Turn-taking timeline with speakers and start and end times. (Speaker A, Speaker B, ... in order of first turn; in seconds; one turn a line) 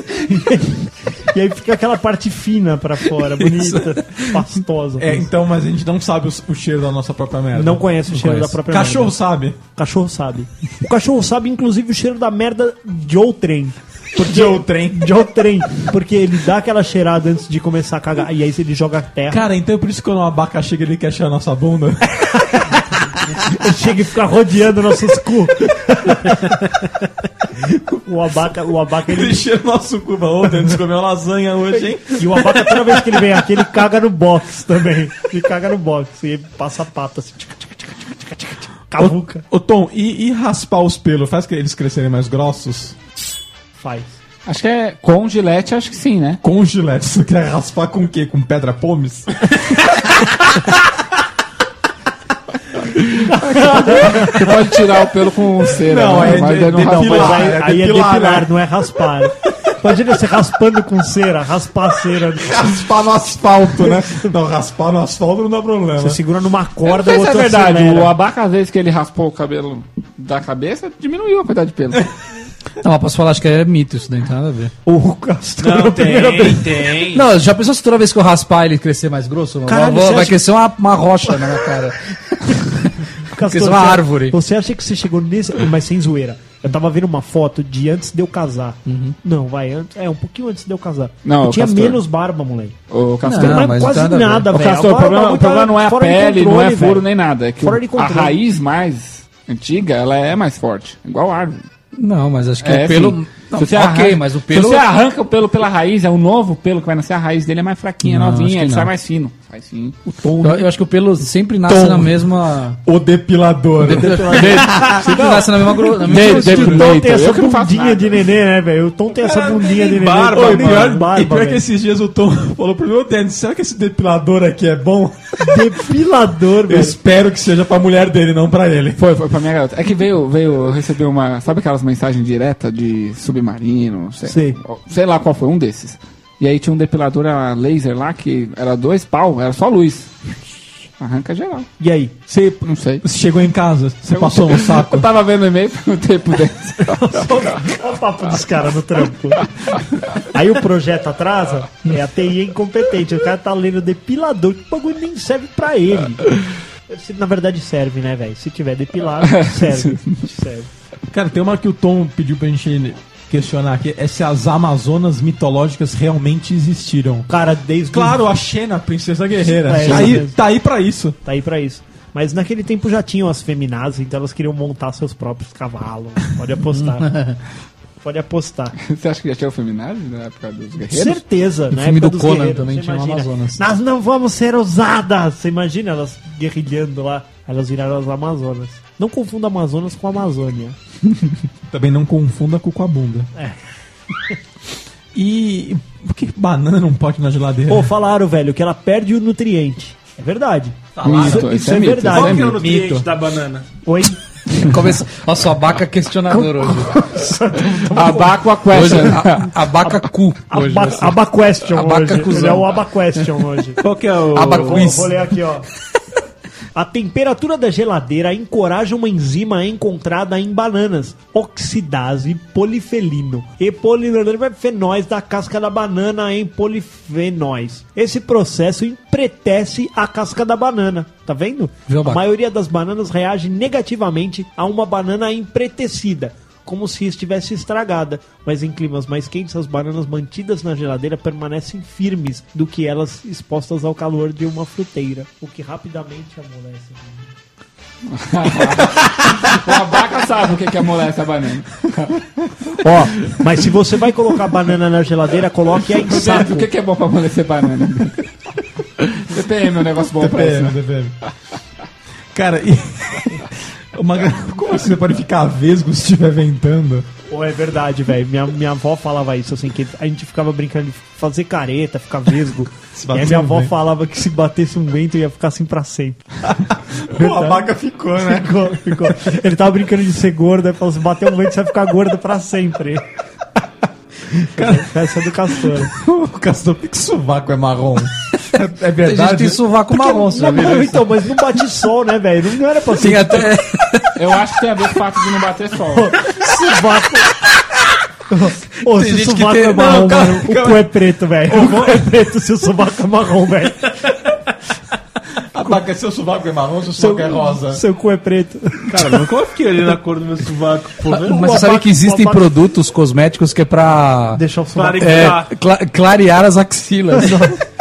Speaker A: 0.1-5.3
Speaker B: 3.4-4.4
Speaker C: 5.0-7.9
Speaker A: 7.5-9.2
Speaker B: 8.1-8.6
Speaker C: 8.7-9.6
Speaker A: 9.7-19.4
Speaker C: 14.2-15.1
Speaker C: 19.3-22.4
Speaker A: 22.3-26.9
Speaker A: 27.6-29.4
Speaker C: 29.1-33.5
Speaker A: 32.0-39.4
Speaker C: 39.0-43.0
Speaker A: 43.8-44.2
Speaker D: 44.5-46.4
Speaker C: 46.4-49.5
Speaker D: 53.1-57.5
Speaker A: 53.2-54.5
Speaker C: 55.8-58.5
Speaker A: 56.8-62.6
Speaker C: 62.4-66.2
Speaker A: 63.8-64.3
Speaker A: 66.0-68.1
Speaker D: 66.8-72.1
Speaker B: 72.8-74.7
Speaker A: 74.8-77.0
Speaker E: 75.6-77.2
Speaker B: 77.1-84.3
Speaker A: 79.7-80.4
Speaker A: 83.2-92.8
Speaker B: 88.8-89.1
Speaker D: 91.2-92.0
Speaker D: 92.9-93.8
Speaker B: 93.2-94.5
Speaker A: 93.3-97.0
Speaker D: 94.5-101.6
Speaker A: 97.6-98.4
Speaker B: 102.0-104.8
Speaker D: 102.6-110.0
Speaker B: 108.0-108.9
Speaker A: 110.1-110.7
Speaker B: 110.4-112.8
Speaker C: 111.7-112.3
Speaker C: 112.8-115.2
Speaker B: 113.8-117.0
Speaker A: 113.9-121.6
Speaker D: 115.2-118.2
Speaker E: 119.1-121.0
Speaker C: 120.2-125.8
Speaker A: 125.4-127.0
Speaker C: 126.7-129.0
Speaker D: 129.0-140.3
Speaker A: 134.2-134.6
Speaker D: 141.0-141.7
Speaker A: 141.8-142.1
Speaker C: 142.3-145.1
Speaker D: 142.6-143.0
Speaker D: 144.1-147.7
Speaker A: 146.9-156.3
Speaker A: 156.9-160.7
Speaker D: 159.2-160.2
Speaker C: 161.1-167.3
Speaker A: 167.3-168.2
Speaker C: 167.9-171.2
Speaker A: 169.5-170.4
Speaker D: 169.8-170.1
Speaker A: 171.2-177.2
Speaker B: 176.8-177.4
Speaker A: 178.0-178.7
Speaker D: 178.8-181.2
Speaker A: 180.9-190.8
Speaker B: 181.7-183.7
Speaker C: 191.7-193.3
Speaker C: 195.1-197.9
Speaker A: 197.7-202.5
Speaker C: 200.9-201.5
Speaker D: 201.0-202.6
Speaker E: 202.1-203.7
Speaker C: 202.6-203.1
Speaker A: 203.8-204.2
Speaker B: 204.6-207.1
Speaker A: 206.4-208.4
Speaker D: 207.8-209.5
Speaker B: 208.7-212.8
Speaker A: 209.8-213.8
Speaker E: 213.8-215.0
Speaker B: 214.3-215.1
Speaker A: 214.5-215.6
Speaker A: 216.7-247.3
Speaker B: 231.9-232.2
Speaker D: 248.1-252.2
Speaker A: 252.8-256.7
Speaker D: 255.9-258.2
Speaker D: 259.0-260.8
Speaker C: 260.2-261.1
Speaker C: 262.3-267.1
Speaker A: 267.3-276.2
Speaker C: 272.9-273.7
Speaker C: 276.4-279.2
Speaker A: 277.1-283.0
Speaker C: 284.4-289.6
Speaker A: 284.6-285.9
Speaker B: 289.0-291.1
Speaker A: 289.9-293.5
Speaker B: 292.9-294.2
Speaker D: 294.1-296.2
Speaker A: 295.9-297.3
Speaker A: 298.3-304.2
Speaker B: 298.9-300.2
Speaker C: 299.7-300.9
Speaker C: 301.4-302.0
Speaker C: 305.5-307.8
Speaker A: 307.0-309.2
Speaker E: 308.9-311.6
Speaker B: 311.1-314.4
Speaker A: 311.2-312.6
Speaker A: 314.3-315.4
Speaker E: 314.7-315.5
Speaker B: 315.0-317.5
Speaker A: 317.1-317.6